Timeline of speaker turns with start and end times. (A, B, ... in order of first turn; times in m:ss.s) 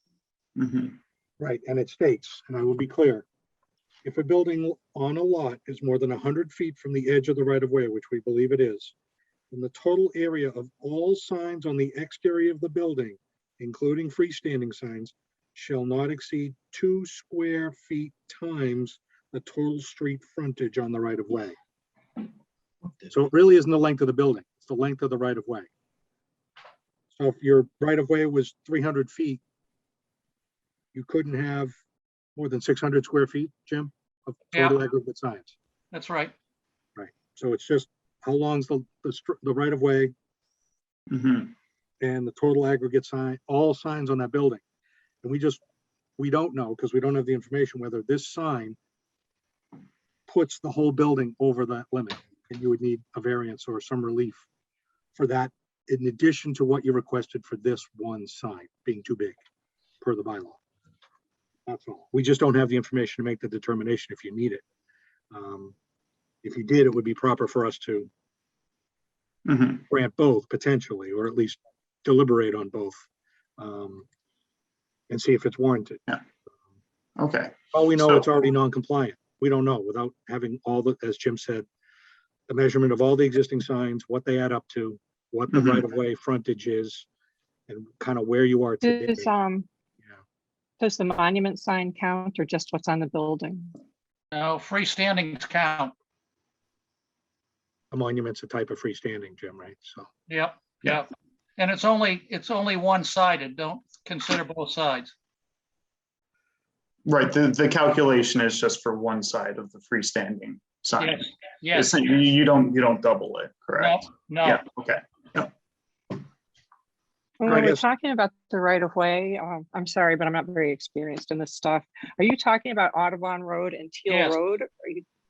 0:00.6-0:01.0 A
0:01.4-0:03.3 B
0:04.0-0:08.9 B
0:09.5-0:21.6 B
0:23.1-0:25.7 B
0:27.2-0:29.4 B
0:30.9-0:31.7 B
0:32.4-0:35.5 B
0:34.5-0:34.8 C
0:35.9-0:36.3 C
0:37.0-0:40.1 B
0:41.1-0:41.5 A
0:42.0-0:44.6 B
0:45.2-0:45.6 B
0:46.2-0:48.8 B
0:50.3-0:54.4 B
0:55.2-0:59.4 B
1:00.0-1:00.6 B
1:01.7-1:04.6 B
1:05.3-1:05.8 B
1:06.4-1:08.1 B
1:09.5-1:09.8 A
1:09.9-1:13.0 B
1:13.6-1:14.1 B
1:15.1-1:16.0 B
1:17.2-1:18.3 A
1:17.7-1:21.7 B
1:22.5-1:27.1 B
1:25.5-1:25.8 A
1:27.7-1:29.3 B
1:28.8-1:29.7 D
1:30.8-1:33.7 D
1:34.3-1:35.9 C
1:37.9-1:40.1 B
1:40.3-1:45.1 C
1:47.1-1:55.5 A
1:51.0-1:52.0 C
1:53.8-1:54.6 C
1:57.4-2:05.0 D
1:57.5-1:57.9 B
1:57.5-1:57.8 A
2:04.1-2:04.4 C